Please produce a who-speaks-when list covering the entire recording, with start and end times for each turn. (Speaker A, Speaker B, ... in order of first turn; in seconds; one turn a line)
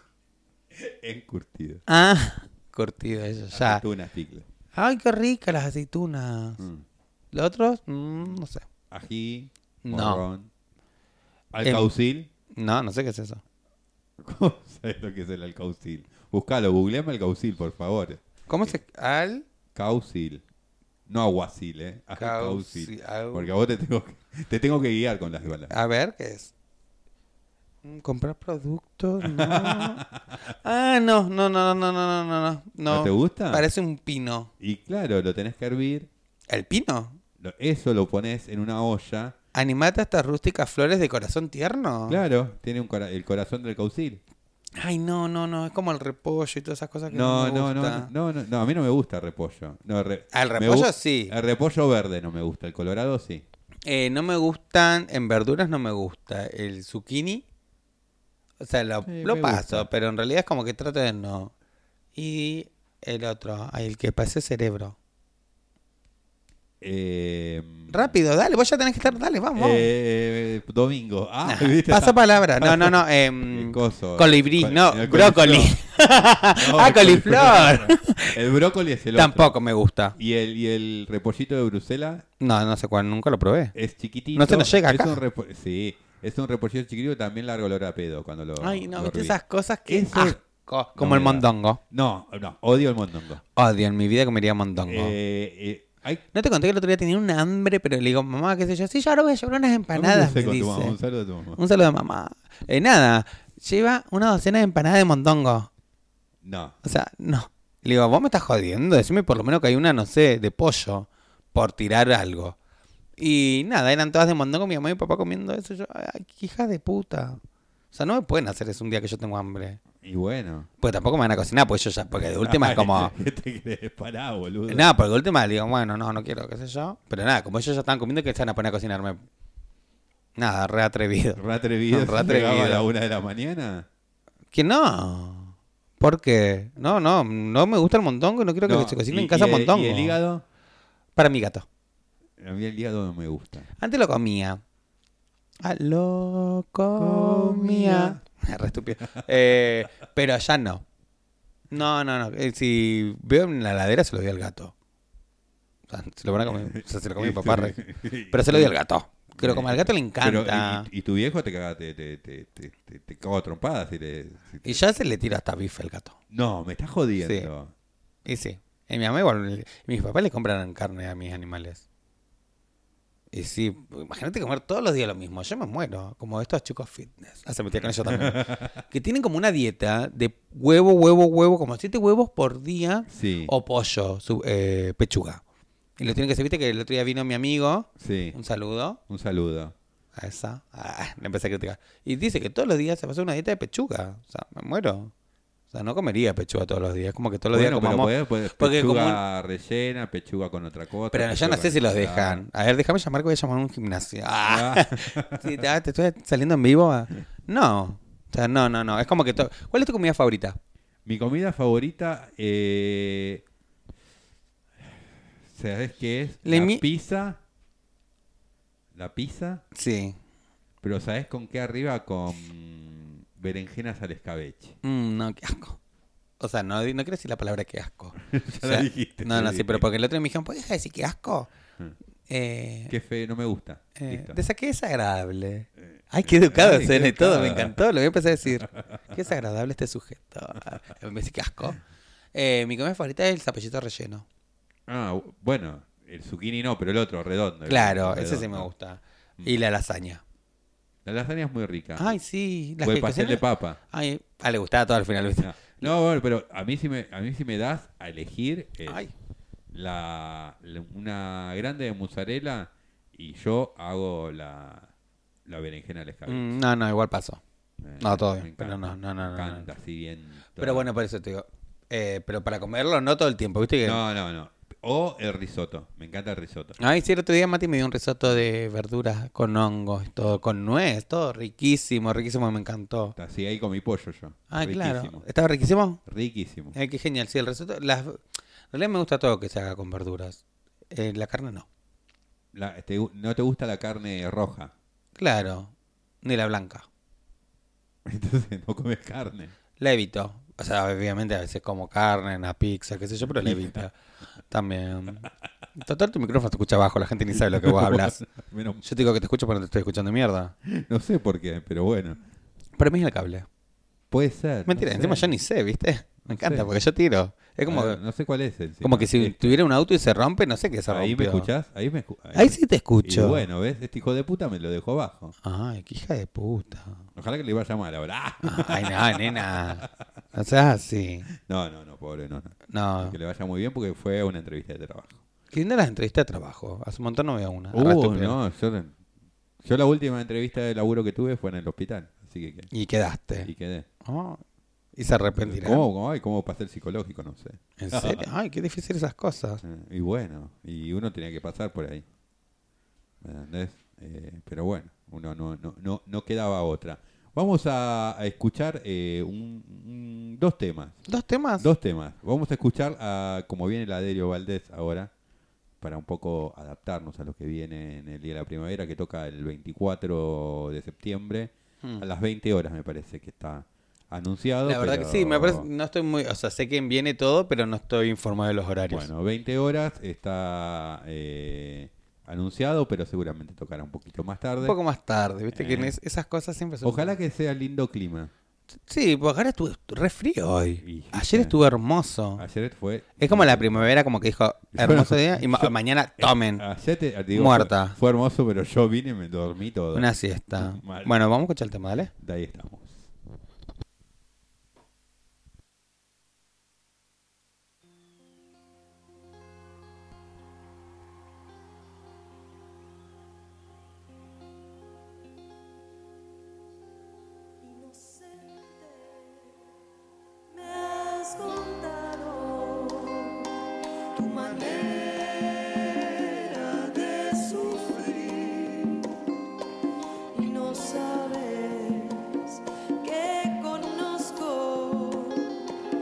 Speaker A: 0.7-1.8
Speaker B: 1.9-3.8
Speaker A: 3.5-4.5
Speaker B: 4.7-6.6
Speaker A: 6.6-6.8
Speaker B: 7.3-8.6
Speaker A: 8.9-10.5
Speaker B: 9.8-10.2
Speaker A: 11.5-12.3
Speaker B: 12.5-13.4
Speaker A: 14.2-18.8
Speaker B: 18.5-19.4
Speaker A: 19.7-20.4
Speaker A: 21.1-25.7
Speaker B: 22.2-23.5
Speaker B: 25.7-26.5
Speaker B: 27.8-30.0
Speaker A: 29.2-30.4
Speaker B: 30.6-34.5
Speaker A: 32.9-33.6
Speaker A: 34.6-36.1
Speaker B: 36.5-37.2
Speaker A: 37.4-39.4
Speaker B: 39.5-42.2
Speaker A: 42.1-44.2
Speaker B: 44.8-48.1
Speaker A: 47.1-53.4
Speaker B: 50.3-51.3
Speaker B: 53.9-57.4
Speaker B: 58.6-61.5
Speaker A: 59.0-59.9
Speaker B: 62.1-65.0
Speaker A: 66.8-68.1
Speaker B: 67.9-69.9
Speaker A: 69.5-75.8
Speaker B: 71.4-78.4
Speaker A: 76.4-79.6
Speaker B: 79.1-80.2
Speaker A: 80.2-82.2
Speaker B: 82.4-83.7
Speaker A: 83.7-90.4
Speaker B: 84.3-85.2
Speaker B: 88.6-91.8
Speaker A: 91.0-93.4
Speaker B: 93.5-95.2
Speaker A: 94.9-96.2
Speaker B: 96.3-101.0
Speaker A: 99.9-101.6
Speaker B: 101.5-105.7
Speaker A: 106.4-106.8
Speaker B: 106.8-112.5
Speaker B: 113.2-117.4
Speaker B: 117.9-119.8
Speaker A: 120.0-120.7
Speaker B: 120.8-123.1
Speaker A: 122.1-124.9
Speaker B: 124.7-129.2
Speaker B: 130.4-132.8
Speaker A: 131.4-133.9
Speaker B: 134.5-140.2
Speaker A: 138.6-140.4
Speaker B: 141.2-141.7
Speaker A: 142.4-143.7
Speaker B: 143.8-144.6
Speaker B: 145.6-150.8
Speaker A: 147.0-148.2
Speaker B: 151.7-154.7
Speaker B: 155.9-160.9
Speaker A: 156.4-158.8
Speaker A: 159.4-164.8
Speaker B: 164.6-166.2
Speaker A: 166.3-167.7
Speaker B: 167.2-167.5
Speaker B: 168.2-171.8
Speaker B: 173.3-185.4
Speaker A: 178.0-178.8
Speaker A: 183.1-183.5
Speaker B: 186.0-189.0
Speaker A: 188.0-188.3
Speaker A: 189.1-189.7
Speaker B: 190.2-195.1
Speaker B: 195.7-199.2
Speaker A: 197.5-202.4
Speaker B: 201.1-210.6
Speaker A: 204.4-205.6
Speaker A: 211.1-213.4
Speaker A: 215.4-217.4
Speaker B: 216.4-216.8
Speaker A: 218.9-219.6
Speaker B: 219.7-220.2
Speaker A: 220.8-224.8
Speaker B: 224.8-225.8
Speaker B: 226.4-231.5
Speaker A: 228.2-229.9
Speaker B: 232.3-232.9
Speaker A: 232.9-234.4
Speaker B: 233.9-241.8
Speaker A: 235.8-237.8
Speaker B: 242.3-244.2
Speaker A: 244.9-248.7
Speaker B: 247.7-250.2
Speaker A: 251.0-252.2
Speaker B: 252.0-255.9
Speaker A: 252.8-253.8
Speaker A: 255.4-259.1
Speaker B: 258.9-259.1
Speaker A: 259.7-264.9
Speaker A: 265.4-266.6
Speaker B: 266.3-267.4
Speaker A: 267.8-270.9
Speaker B: 268.0-269.7
Speaker B: 270.6-274.0
Speaker A: 273.8-276.8
Speaker B: 276.8-283.1
Speaker A: 283.1-285.2
Speaker B: 284.5-286.0
Speaker A: 286.1-286.8
Speaker B: 286.7-290.4
Speaker B: 290.9-291.6
Speaker A: 292.5-294.7
Speaker B: 295.2-295.7
Speaker B: 296.2-296.9
Speaker A: 298.1-299.5
Speaker B: 299.8-303.9
Speaker A: 303.3-303.8
Speaker B: 304.5-308.2
Speaker A: 307.3-308.9
Speaker B: 308.8-310.5
Speaker A: 310.6-312.2
Speaker B: 312.8-313.5
Speaker A: 314.1-315.3
Speaker B: 314.7-318.0
Speaker A: 316.3-316.7
Speaker A: 317.6-319.6
Speaker B: 318.8-321.5
Speaker A: 320.9-325.3
Speaker B: 322.3-323.4
Speaker B: 325.4-327.0
Speaker A: 327.1-329.7
Speaker B: 328.4-331.3
Speaker A: 331.4-335.2
Speaker B: 332.7-333.1
Speaker B: 335.5-338.4
Speaker A: 337.7-338.9
Speaker A: 339.6-342.7
Speaker B: 342.7-343.5
Speaker A: 343.4-343.9
Speaker B: 344.0-344.4
Speaker B: 344.9-345.9
Speaker A: 345.4-348.2
Speaker B: 347.8-349.6
Speaker A: 349.6-352.0
Speaker A: 353.2-361.0
Speaker B: 361.1-361.7
Speaker A: 361.6-365.1
Speaker A: 365.8-375.7
Speaker B: 374.6-379.1
Speaker A: 378.9-384.8
Speaker B: 384.6-387.1
Speaker A: 385.5-386.0
Speaker A: 386.8-388.3
Speaker B: 388.9-392.4
Speaker A: 390.8-391.5
Speaker A: 392.4-393.9
Speaker B: 393.2-396.6
Speaker A: 394.7-401.1
Speaker B: 397.3-398.0
Speaker B: 399.9-402.1
Speaker A: 402.2-403.1
Speaker C: 417.6-419.6
Speaker C: 420.5-423.5
Speaker C: 424.1-429.1
Speaker C: 430.3-435.7